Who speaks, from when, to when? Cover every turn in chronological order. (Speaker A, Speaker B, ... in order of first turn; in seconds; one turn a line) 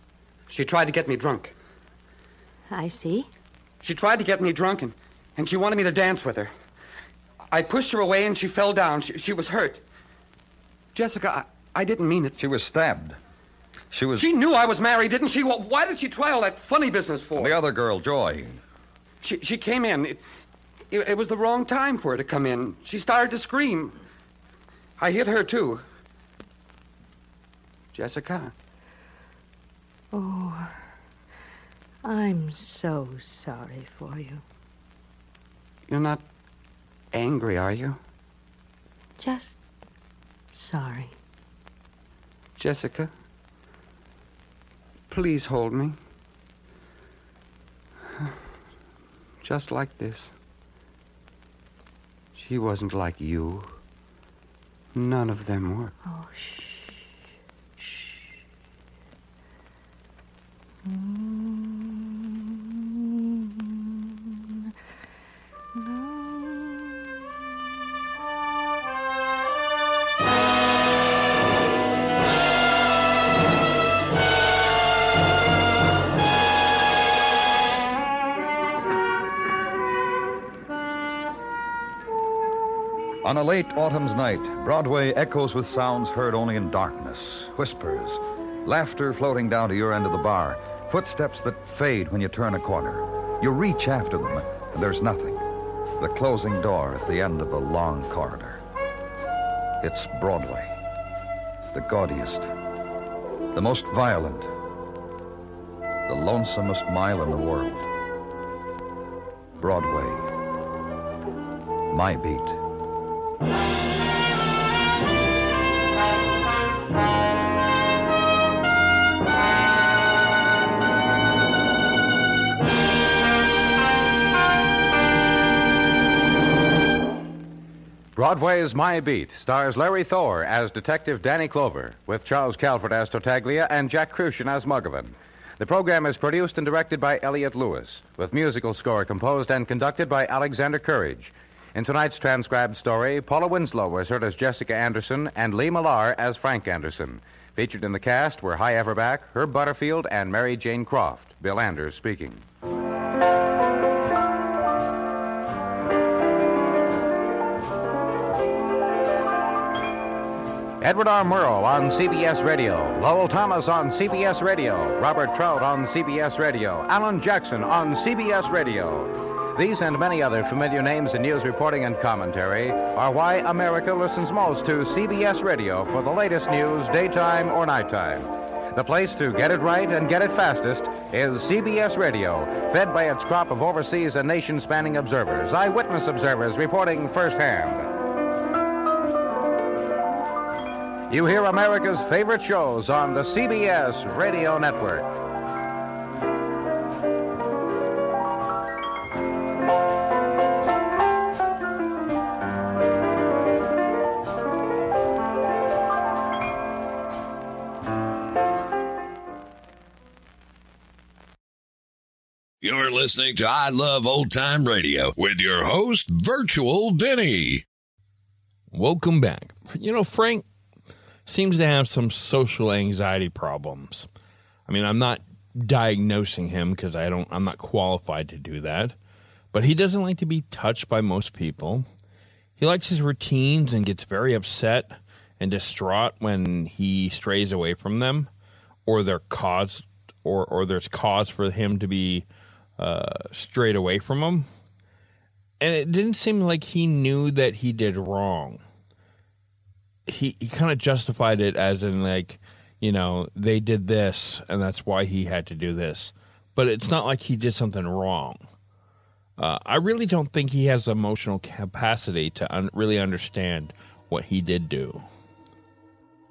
Speaker A: 0.5-1.5
Speaker B: 2.7-3.3
Speaker A: 3.8-6.5
Speaker A: 7.5-9.8
Speaker A: 10.9-12.4
Speaker C: 12.4-13.2
Speaker C: 13.9-14.3
Speaker A: 14.2-17.6
Speaker C: 17.3-18.6
Speaker A: 19.2-20.2
Speaker A: 20.9-24.0
Speaker A: 25.0-25.8
Speaker A: 27.9-28.5
Speaker B: 30.1-30.7
Speaker B: 32.0-34.4
Speaker A: 35.9-36.2
Speaker A: 37.1-38.0
Speaker B: 39.2-39.6
Speaker B: 40.5-41.1
Speaker A: 42.6-43.1
Speaker A: 45.1-46.0
Speaker A: 49.4-50.3
Speaker A: 52.3-53.8
Speaker A: 54.9-55.9
Speaker B: 56.0-57.0
Speaker B: 57.8-58.2
Speaker B: 60.8-64.4
Speaker B: 65.7-66.9
Speaker C: 83.2-95.4
Speaker C: 96.0-98.6
Speaker C: 99.8-100.7
Speaker C: 101.7-102.5
Speaker C: 103.5-104.5
Speaker C: 106.1-107.9
Speaker C: 109.6-110.3
Speaker C: 111.9-112.6
Speaker D: 128.1-152.4
Speaker D: 160.8-187.9
Speaker D: 191.1-195.1
Speaker E: 212.6-217.6
Speaker F: 218.7-220.4
Speaker F: 221.3-224.1
Speaker F: 224.7-228.9
Speaker F: 229.5-231.8
Speaker F: 232.6-238.3
Speaker F: 238.8-242.2
Speaker F: 242.8-244.4
Speaker F: 245.6-248.6
Speaker F: 250.1-258.4
Speaker F: 259.4-265.0